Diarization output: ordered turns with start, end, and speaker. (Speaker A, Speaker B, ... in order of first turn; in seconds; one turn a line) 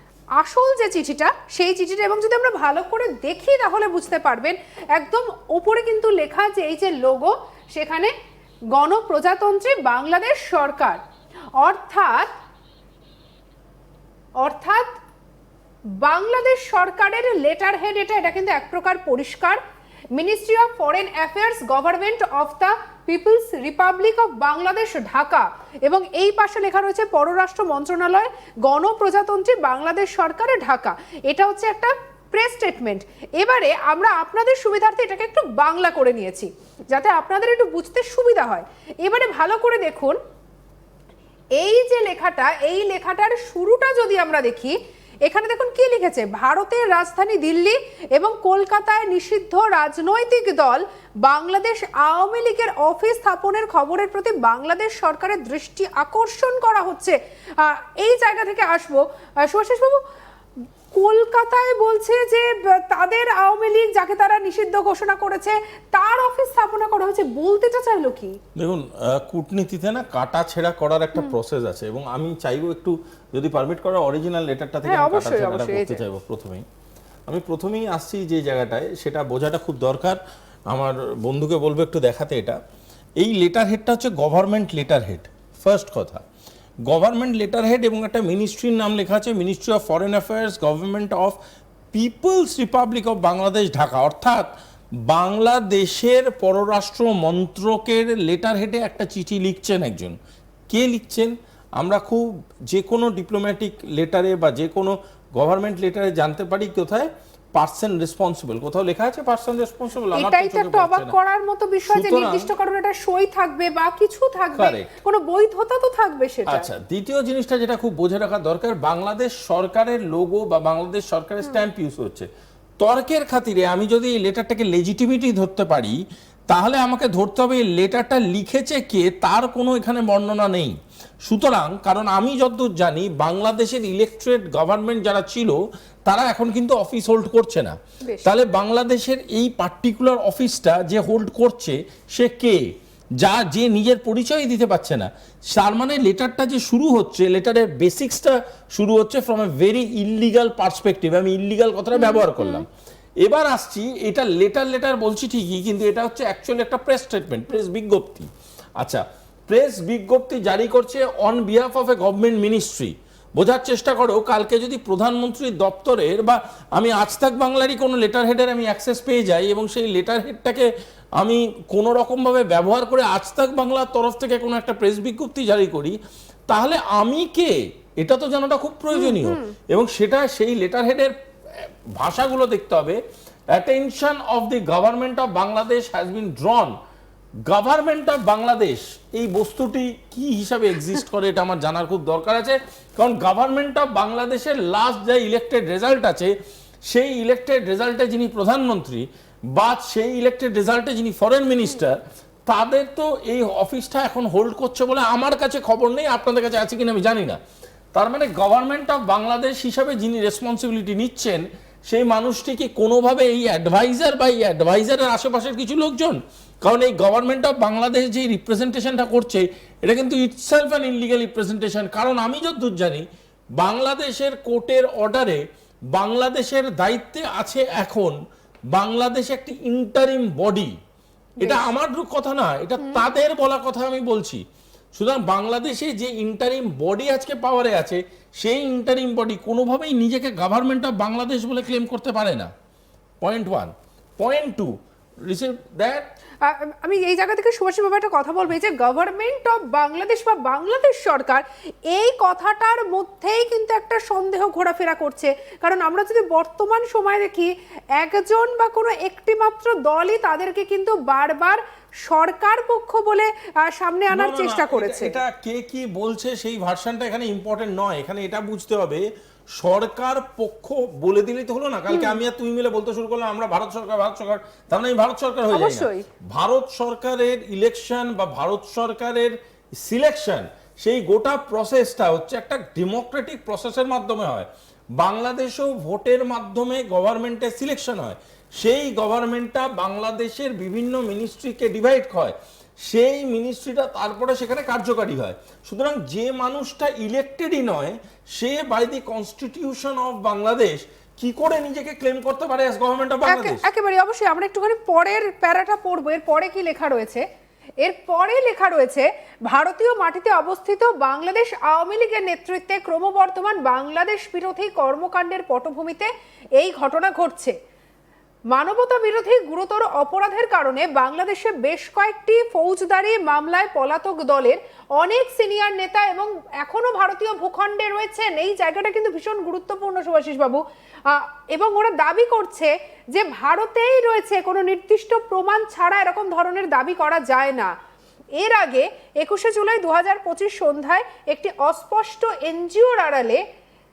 Speaker A: 0.4-8.1
Speaker A: 8.8-11.0
Speaker A: 11.6-12.3
Speaker A: 14.4-15.0
Speaker A: 16.0-19.6
Speaker A: 20.1-40.2
Speaker A: 41.6-60.0
Speaker A: 60.9-68.4
Speaker B: 68.6-76.7
Speaker A: 74.8-76.0
Speaker B: 77.3-80.2
Speaker B: 80.7-82.6
Speaker B: 83.2-86.2
Speaker B: 86.9-91.4
Speaker B: 91.9-94.5
Speaker B: 95.1-100.2
Speaker B: 100.7-111.2
Speaker A: 110.1-116.7
Speaker B: 111.9-112.5
Speaker B: 114.6-114.9
Speaker B: 116.5-122.3
Speaker B: 122.8-142.6
Speaker B: 143.2-152.7
Speaker A: 151.9-152.7
Speaker B: 153.2-158.3
Speaker B: 158.8-170.7
Speaker B: 171.2-176.0
Speaker B: 176.5-183.0
Speaker A: 178.9-179.5
Speaker B: 183.5-186.7
Speaker B: 187.5-196.3
Speaker B: 196.9-207.4
Speaker B: 207.9-223.1
Speaker B: 223.6-225.4
Speaker B: 225.9-228.2
Speaker B: 228.8-230.7
Speaker A: 231.4-231.7
Speaker B: 231.4-234.4
Speaker A: 232.8-233.0
Speaker B: 234.9-242.5
Speaker B: 243.2-244.7
Speaker B: 245.3-246.1
Speaker A: 246.4-265.2
Speaker B: 264.1-269.1
Speaker B: 269.6-292.4
Speaker A: 271.9-272.2
Speaker A: 275.5-276.1
Speaker B: 292.9-303.6
Speaker A: 303.3-307.2
Speaker A: 307.8-317.6
Speaker A: 318.5-337.7
Speaker A: 338.4-343.4